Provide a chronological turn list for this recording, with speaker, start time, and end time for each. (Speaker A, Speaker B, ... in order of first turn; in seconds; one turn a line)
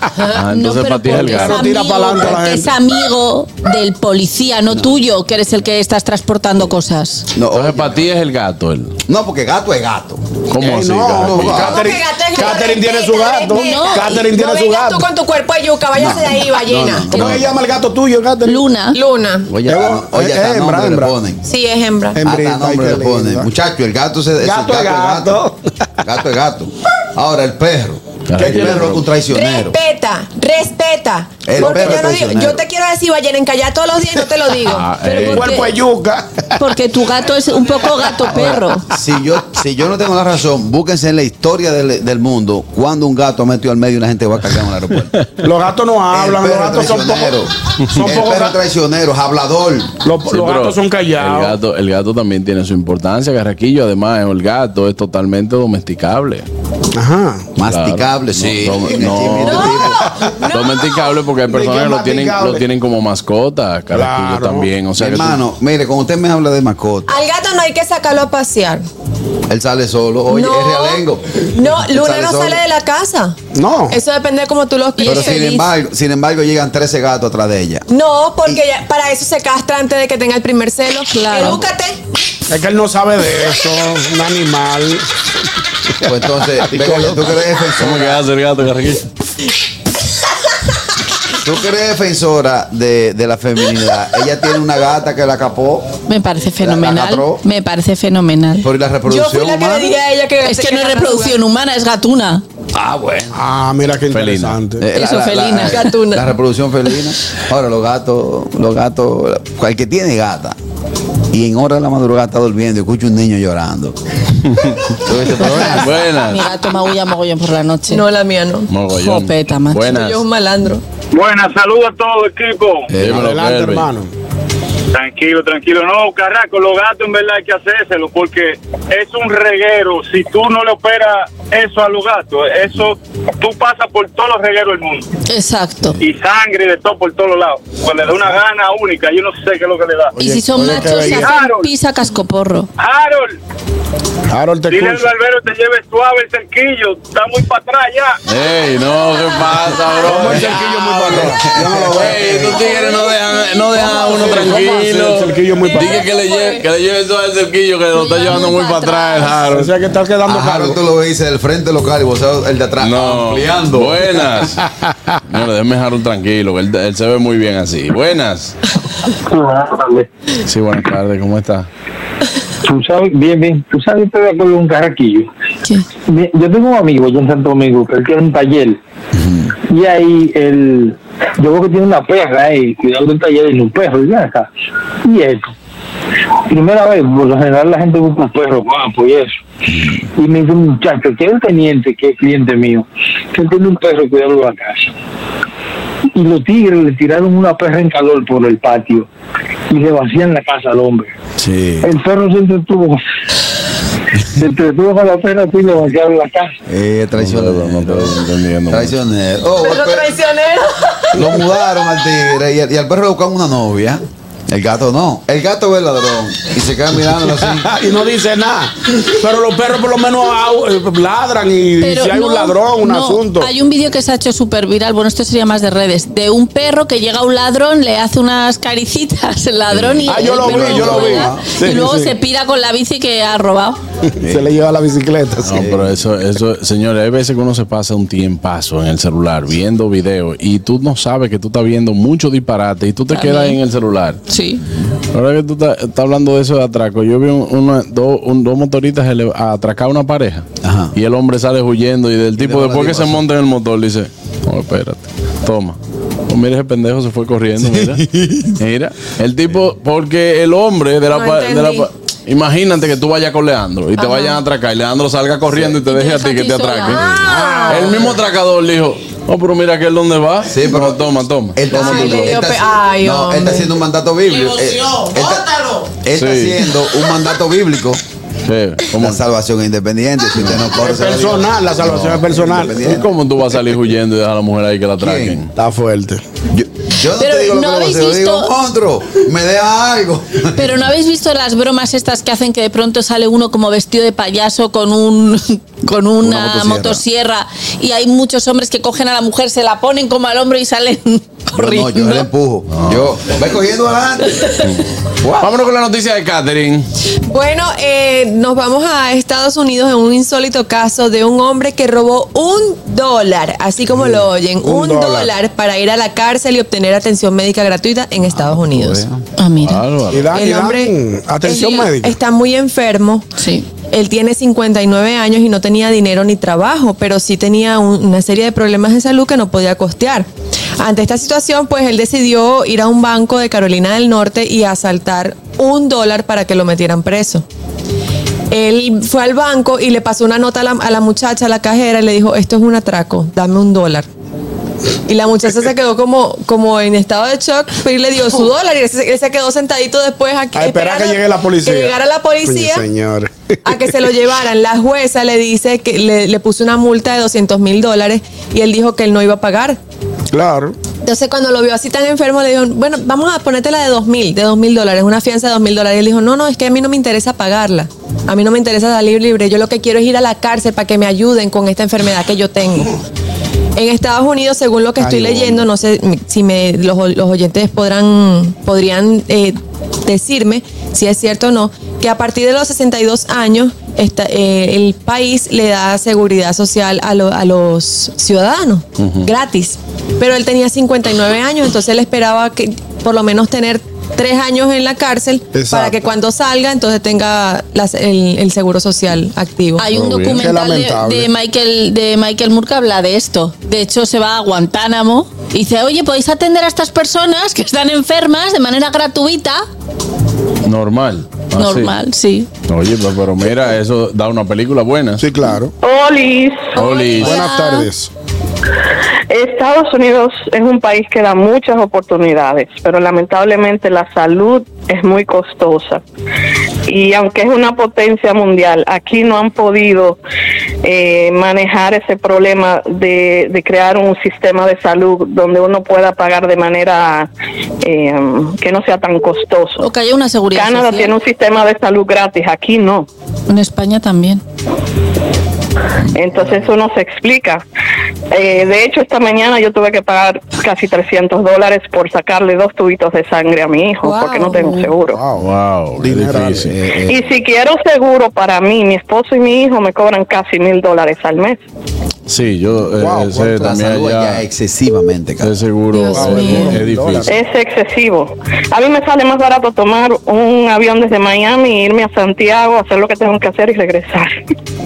Speaker A: 0.3-1.6
Speaker B: 0.3-7.3
Speaker C: 1.1-2.7
Speaker D: 7.3-8.1
Speaker A: 7.5-8.9
Speaker D: 9.1-11.9
Speaker A: 10.5-11.7
Speaker C: 10.6-15.1
Speaker E: 11.5-17.3
Speaker B: 13.6-14.1
Speaker D: 15.9-17.5
Speaker C: 17.1-18.6
Speaker B: 18.4-19.0
Speaker E: 18.9-19.5
Speaker D: 19.5-21.4
Speaker C: 19.7-21.1
Speaker E: 21.4-22.2
Speaker C: 22.1-23.5
Speaker D: 22.2-25.4
Speaker C: 24.4-25.6
Speaker D: 26.0-29.8
Speaker A: 28.3-29.0
Speaker C: 28.4-28.9
Speaker E: 29.3-35.5
Speaker D: 31.4-32.6
Speaker C: 31.6-32.0
Speaker A: 34.6-35.5
Speaker C: 35.2-36.7
Speaker B: 35.4-35.7
Speaker B: 36.6-38.9
Speaker D: 38.9-45.1
Speaker C: 45.4-47.4
Speaker D: 46.1-50.0
Speaker C: 47.9-48.6
Speaker C: 50.0-51.6
Speaker A: 50.3-56.4
Speaker C: 57.0-57.5
Speaker D: 57.6-60.0
Speaker A: 57.7-59.8
Speaker E: 59.4-61.1
Speaker A: 60.5-65.4
Speaker C: 61.5-62.6
Speaker C: 63.9-64.7
Speaker D: 65.0-67.2
Speaker E: 67.1-68.8
Speaker D: 69.5-72.6
Speaker E: 70.3-71.0
Speaker E: 71.5-73.4
Speaker C: 73.5-74.0
Speaker E: 73.9-75.7
Speaker B: 75.0-75.5
Speaker D: 75.0-77.9
Speaker E: 77.9-82.0
Speaker B: 81.3-81.6
Speaker C: 82.5-85.0
Speaker D: 86.0-88.2
Speaker C: 86.6-87.3
Speaker A: 87.8-89.0
Speaker D: 91.4-95.9
Speaker B: 96.1-98.7
Speaker D: 96.6-97.4
Speaker D: 98.6-99.9
Speaker E: 99.1-101.4
Speaker B: 100.4-102.4
Speaker D: 102.7-103.3
Speaker C: 103.3-104.8
Speaker A: 104.1-104.6
Speaker D: 104.8-110.6
Speaker B: 104.9-105.9
Speaker E: 105.7-106.3
Speaker D: 111.3-114.0
Speaker A: 114.5-114.8
Speaker D: 115.0-116.0
Speaker A: 115.4-116.5
Speaker B: 116.1-118.0
Speaker E: 117.9-118.7
Speaker A: 118.7-120.2
Speaker B: 118.9-119.9
Speaker E: 119.9-120.8
Speaker F: 121.1-122.9
Speaker D: 122.9-123.3
Speaker A: 123.0-123.9
Speaker C: 123.0-124.1
Speaker F: 124.9-135.1
Speaker B: 135.3-136.0
Speaker F: 136.0-140.1
Speaker C: 140.2-141.3
Speaker B: 140.2-142.7
Speaker F: 141.0-141.7
Speaker F: 142.8-143.4
Speaker C: 144.3-145.1
Speaker F: 144.7-148.2
Speaker A: 148.3-159.7
Speaker C: 150.0-152.7
Speaker D: 151.2-152.0
Speaker E: 153.8-154.3
Speaker C: 153.8-156.1
Speaker E: 155.7-156.6
Speaker B: 157.9-159.4
Speaker C: 159.5-160.8
Speaker D: 160.2-164.2
Speaker A: 162.8-164.6
Speaker A: 165.3-168.5
Speaker G: 169.2-170.1
Speaker A: 170.5-171.7
Speaker G: 172.6-175.3
Speaker G: 176.1-178.8
Speaker D: 179.1-179.5
Speaker G: 179.7-184.5
Speaker G: 185.0-185.5
Speaker G: 186.5-189.4
Speaker D: 189.7-190.0
Speaker G: 190.2-194.9
Speaker G: 196.1-199.1
Speaker G: 199.7-201.1
Speaker A: 201.4-201.9
Speaker G: 201.8-203.0
Speaker G: 204.3-206.5
Speaker D: 206.7-210.1
Speaker A: 207.2-208.9
Speaker E: 209.6-211.2
Speaker D: 211.1-217.7
Speaker C: 217.6-223.5
Speaker B: 221.8-233.8
Speaker A: 229.7-230.1
Speaker C: 230.1-232.1
Speaker D: 230.4-231.5
Speaker D: 234.2-234.5
Speaker C: 234.2-235.7
Speaker D: 235.4-236.0
Speaker A: 235.4-244.2
Speaker B: 243.1-243.6
Speaker B: 244.3-244.6
Speaker A: 245.1-255.8
Speaker D: 250.6-250.9
Speaker D: 252.3-253.2
Speaker A: 256.3-258.0
Speaker A: 258.6-272.4
Speaker E: 261.1-261.9
Speaker E: 264.0-264.4
Speaker B: 265.8-267.1
Speaker E: 267.0-268.0
Speaker C: 267.3-268.2
Speaker D: 270.5-278.0
Speaker E: 271.7-273.7
Speaker A: 276.1-276.6
Speaker A: 278.5-279.2
Speaker D: 278.9-283.1
Speaker C: 280.8-282.9
Speaker A: 282.8-285.5
Speaker D: 285.0-285.4
Speaker C: 285.6-286.2
Speaker D: 286.5-290.7
Speaker B: 287.1-288.5
Speaker B: 290.5-302.2
Speaker D: 296.2-297.0
Speaker D: 301.5-304.5
Speaker A: 302.7-303.0
Speaker D: 305.2-305.5
Speaker A: 305.4-306.8
Speaker E: 307.3-319.0
Speaker C: 313.9-315.3
Speaker D: 318.2-319.2
Speaker B: 319.4-319.9
Speaker A: 319.6-320.4
Speaker C: 320.1-322.2
Speaker E: 320.3-320.9
Speaker E: 321.4-323.3
Speaker B: 323.4-323.6
Speaker E: 323.9-330.3
Speaker E: 330.8-337.4
Speaker E: 338.5-344.1
Speaker E: 345.1-352.8
Speaker C: 350.5-354.0
Speaker E: 353.6-359.8
Speaker C: 360.3-360.8
Speaker E: 361.0-372.9
Speaker E: 373.8-399.8
Speaker C: 375.0-375.6
Speaker A: 389.0-389.3
Speaker C: 395.5-396.1
Speaker B: 399.8-409.6
Speaker C: 399.9-401.3
Speaker A: 399.9-400.4
Speaker A: 410.6-412.0
Speaker B: 411.6-412.5
Speaker A: 412.7-415.2
Speaker C: 415.2-415.7
Speaker H: 415.8-416.8
Speaker A: 416.8-417.4
Speaker B: 416.8-417.9
Speaker C: 417.2-418.1
Speaker H: 419.3-426.0
Speaker H: 426.9-430.2
Speaker H: 430.8-437.3
Speaker H: 437.8-439.9
Speaker B: 439.8-441.1
Speaker H: 440.5-443.1
Speaker B: 443.5-444.4
Speaker H: 446.1-447.6
Speaker H: 448.3-455.2
Speaker E: 454.0-454.9
Speaker C: 455.1-456.7
Speaker A: 455.4-456.7
Speaker D: 456.6-457.2
Speaker H: 457.1-461.6
Speaker A: 462.3-464.4
Speaker C: 463.0-463.6
Speaker D: 463.5-465.5
Speaker A: 465.4-467.3
Speaker E: 465.9-466.6
Speaker C: 466.1-467.4
Speaker B: 466.2-466.8
Speaker H: 467.3-474.4